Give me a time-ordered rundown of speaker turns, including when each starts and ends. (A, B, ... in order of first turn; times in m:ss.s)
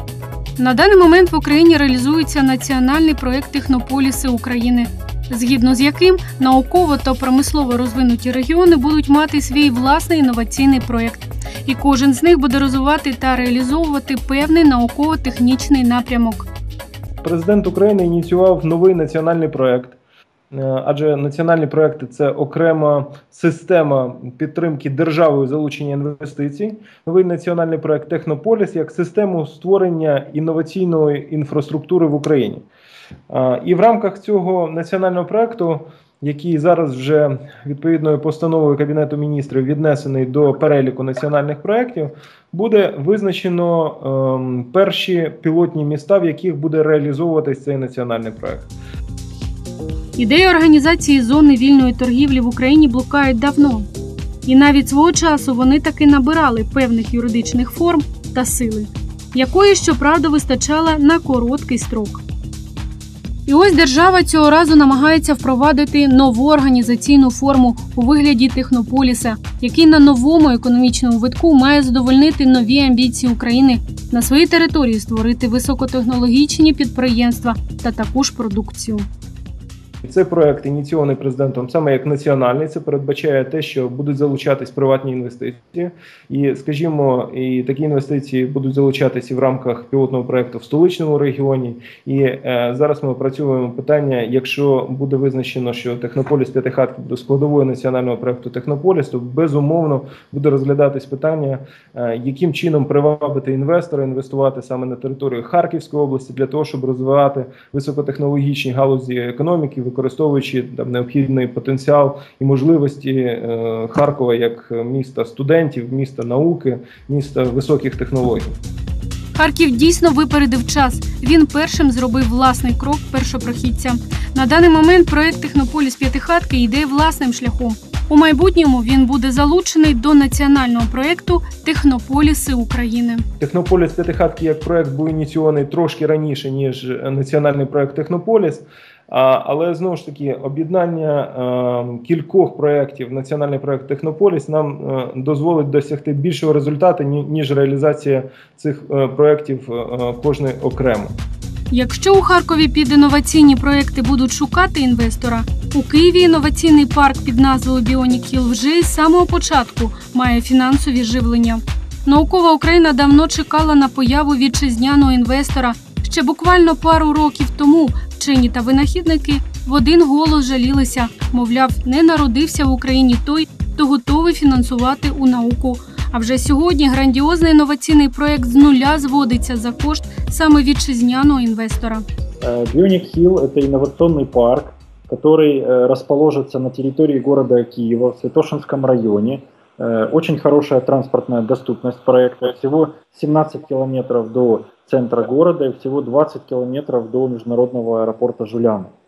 0:00.6-0:16.5 A
0:17.2-0:20.0 B
0:20.5-0:32.6 B
0:33.3-0:48.7 B
0:50.2-0:53.9 A
0:54.5-1:02.2 A
1:03.5-1:19.1 A
1:20.0-1:58.6 B
1:59.4-2:13.2 A
2:13.4-2:31.1 B
2:31.7-3:02.0 A
3:02.4-3:18.9 C